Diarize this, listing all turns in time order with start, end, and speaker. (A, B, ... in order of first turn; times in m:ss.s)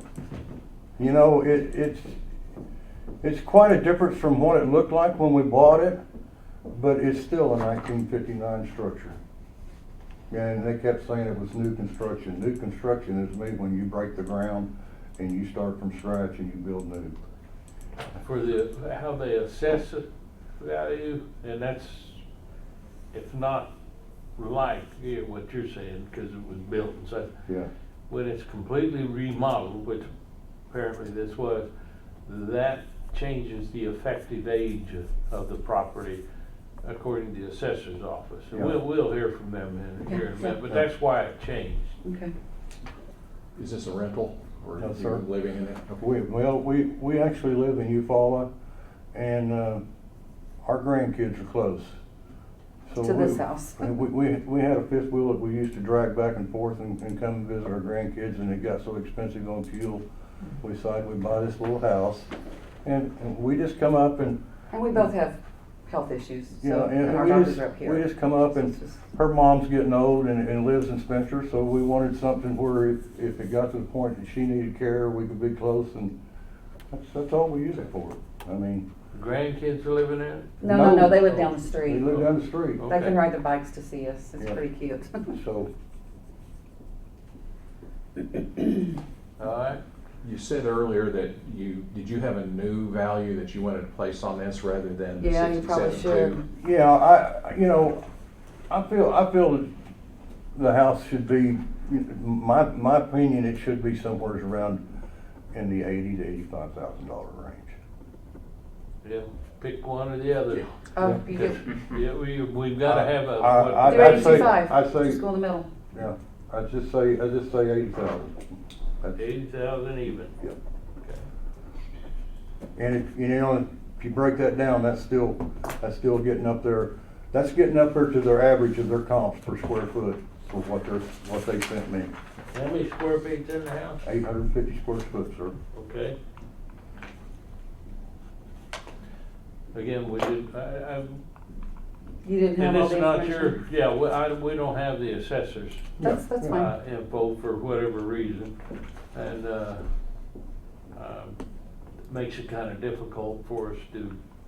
0:01.0-0:02.2 A
0:03.2-0:06.0 A
0:06.7-0:09.2 A
0:10.3-0:17.2 A
0:18.2-0:20.0 B
0:20.6-0:22.2 B
0:23.1-0:23.7 B
0:24.4-0:27.3 B
0:28.1-0:30.1 B
0:30.7-0:31.7 B
0:32.2-0:36.2 B
0:36.8-0:42.0 B
0:40.1-0:40.5 C
0:42.0-0:42.3 C
0:43.6-0:46.0 D
0:44.8-0:45.2 A
0:46.0-0:48.5 A
0:49.1-0:49.8 A
0:50.6-0:51.9 A
0:52.9-1:00.0 A
0:53.0-0:53.8 C
1:00.6-1:02.3 A
1:02.8-1:04.4 A
1:04.7-1:09.0 C
1:06.6-1:16.1 A
1:16.9-1:18.8 A
1:19.1-1:20.6 B
1:20.6-1:22.2 C
1:20.6-1:22.9 A
1:21.2-1:21.5 B
1:22.0-1:23.2 B
1:22.8-1:25.4 C
1:25.3-1:25.7 A
1:29.4-1:29.8 B
1:30.2-1:36.4 D
1:35.2-1:36.4 C
1:36.5-1:38.0 A
1:38.7-1:39.7 A
1:40.5-1:44.8 A
1:45.5-1:47.7 A
1:49.0-1:54.6 B
1:50.9-1:51.6 C
1:52.8-1:55.2 A
1:53.8-1:55.7 C
1:55.9-1:58.4 A
1:59.2-2:00.4 B
2:02.8-2:12.1 A
2:12.5-2:14.0 B
2:14.0-2:15.5 A
2:15.7-2:16.2 B
2:19.7-2:21.2 B
2:22.2-2:23.6 C
2:22.6-2:28.5 B
2:26.0-2:26.6 A
2:26.0-2:26.7 C
2:29.1-2:29.8 B
2:30.9-2:31.4 B
2:32.1-2:34.2 B